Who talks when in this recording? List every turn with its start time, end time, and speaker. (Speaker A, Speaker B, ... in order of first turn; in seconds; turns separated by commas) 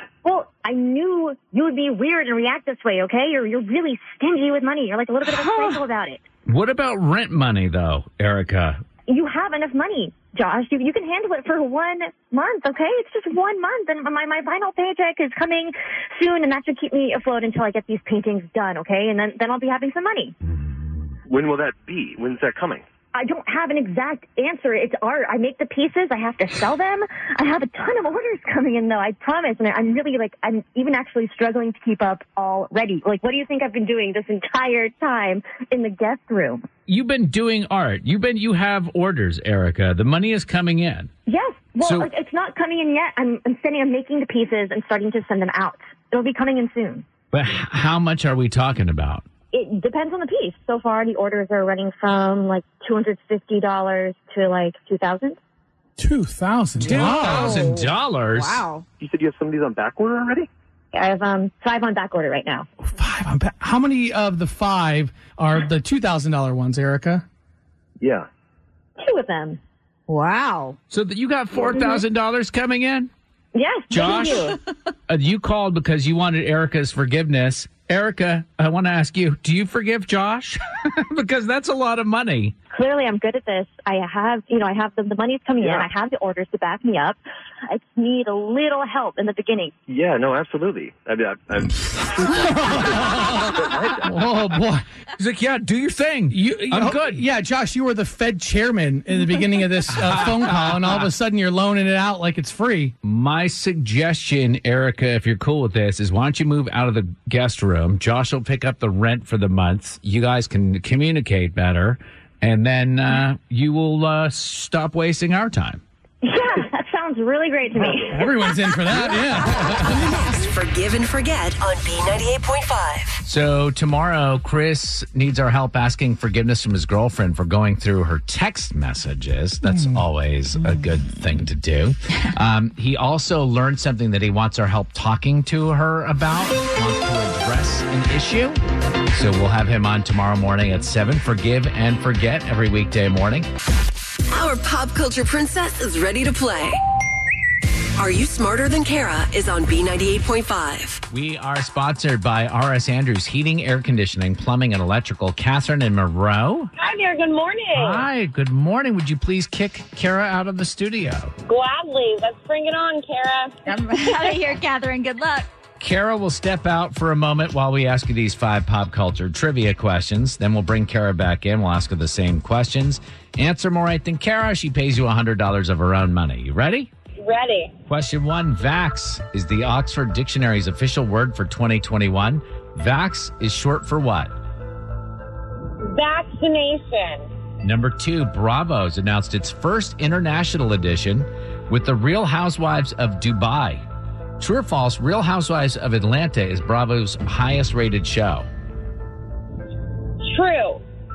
Speaker A: 0.2-6.2, Speaker B: 5.4-5.8, Speaker C: 6.5-8.8, Speaker A: 9.1-20.4, Speaker D: 21.3-22.8, Speaker A: 23.1-36.7, Speaker C: 36.9-41.1, Speaker A: 41.3-47.1, Speaker C: 41.8-42.1, Speaker C: 47.3-49.2, Speaker A: 49.5-55.4, Speaker E: 56.0-57.5, Speaker C: 56.8-58.6, Speaker B: 56.8-58.9, Speaker D: 59.0-60.5, Speaker A: 60.9-62.7, Speaker E: 62.8-67.2, Speaker D: 68.0-68.3, Speaker A: 69.0-69.6, Speaker B: 70.1-70.8, Speaker C: 70.9-73.1, Speaker A: 73.5-74.6, Speaker C: 73.9-74.5, Speaker C: 75.1-82.5, Speaker A: 82.7-89.7, Speaker D: 85.6-85.9, Speaker D: 89.9-94.2, Speaker E: 92.4-94.8, Speaker C: 95.2-97.2, Speaker E: 96.3-102.9, Speaker C: 99.9-101.1, Speaker C: 103.0-115.8, Speaker A: 116.2-118.2, Speaker E: 118.1-120.1, Speaker F: 119.5-123.2, Speaker C: 123.2-138.6, Speaker C: 139.1-143.5, Speaker F: 144.3-146.8, Speaker F: 148.0-151.0, Speaker C: 151.1-156.7, Speaker G: 156.8-158.1, Speaker C: 157.8-161.3, Speaker G: 161.5-164.3, Speaker B: 163.7-165.5, Speaker C: 165.8-176.9, Speaker G: 177.2-177.7, Speaker C: 177.9-184.3, Speaker G: 185.8-187.3, Speaker C: 187.6-193.8, Speaker C: 194.4-198.5, Speaker G: 200.2-200.8